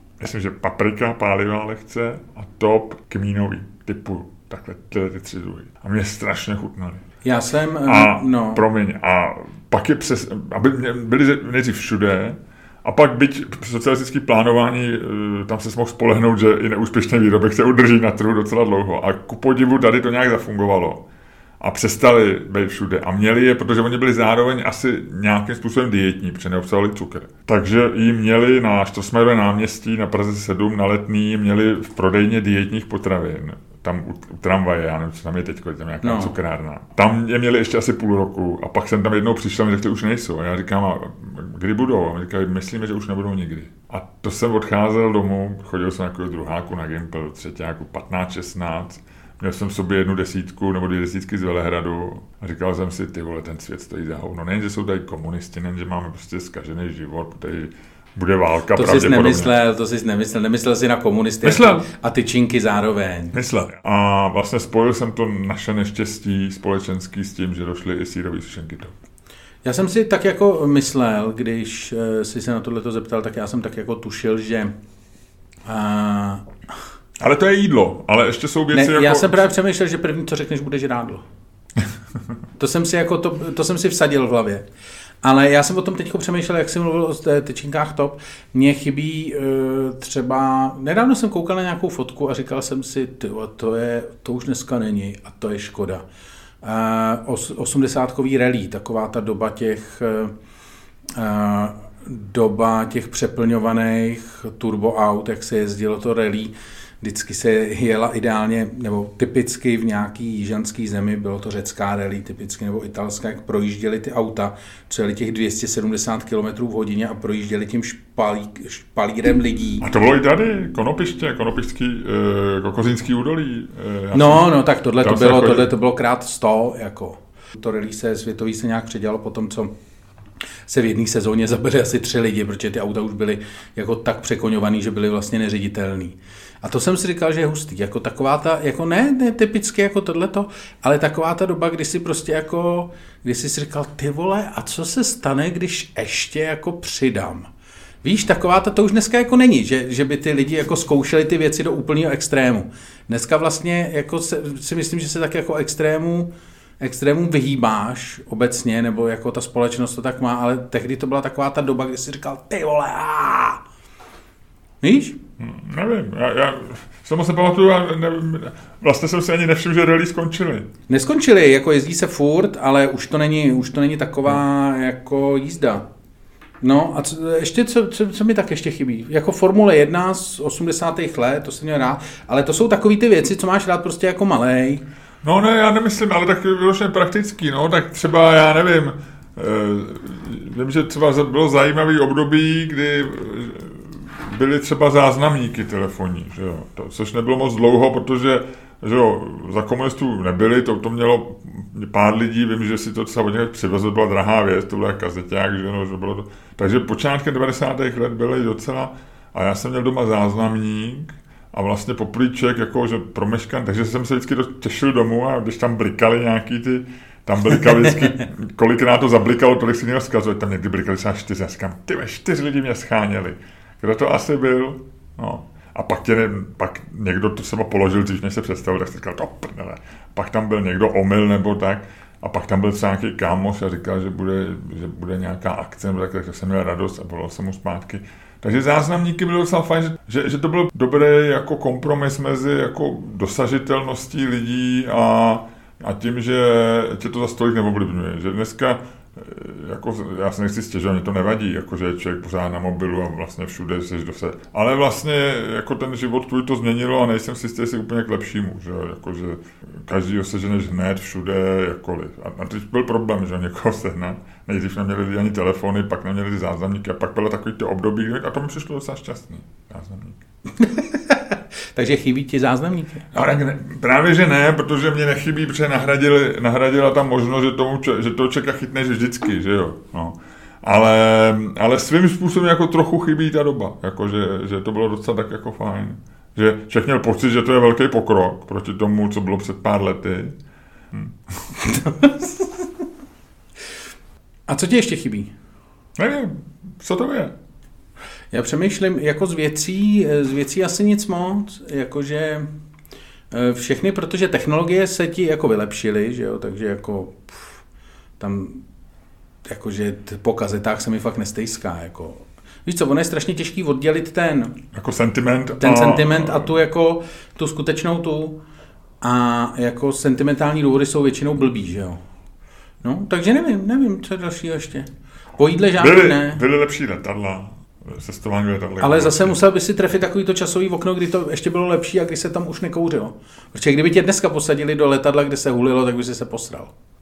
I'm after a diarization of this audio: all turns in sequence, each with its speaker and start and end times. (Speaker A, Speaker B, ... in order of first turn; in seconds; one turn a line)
Speaker A: 0.2-7.0
Speaker B: 7.2-8.6
Speaker A: 7.9-21.0
Speaker A: 21.6-59.5
Speaker B: 36.0-36.4
Speaker B: 58.7-63.4
Speaker A: 61.4-61.9
Speaker A: 63.3-69.0
Speaker B: 69.6-74.7
Speaker B: 75.7-76.5
Speaker A: 77.2-79.5
Speaker B: 78.7-81.2
Speaker B: 82.6-84.7
Speaker B: 85.2-96.0
Speaker B: 96.6-100.3
Speaker B: 101.1-119.9
Speaker A: 119.8-125.7
Speaker B: 124.1-129.7
Speaker B: 130.7-147.5
Speaker B: 148.0-163.6
Speaker B: 164.8-165.2
Speaker A: 165.4-170.7
Speaker B: 170.9-175.9
Speaker B: 176.6-184.8
Speaker A: 185.2-270.2
Speaker B: 270.6-273.1
Speaker A: 273.1-290.4
Speaker A: 290.9-291.2
Speaker B: 291.6-292.5
Speaker B: 294.5-295.3
Speaker A: 296.0-297.3
Speaker B: 298.3-302.5
Speaker B: 303.3-307.6
Speaker B: 308.2-308.6
Speaker B: 309.4-314.6
Speaker A: 314.7-316.6
Speaker B: 315.6-318.4
Speaker B: 319.0-322.0
Speaker B: 322.8-324.9
Speaker B: 325.4-326.4
Speaker A: 325.8-329.4
Speaker B: 328.8-336.7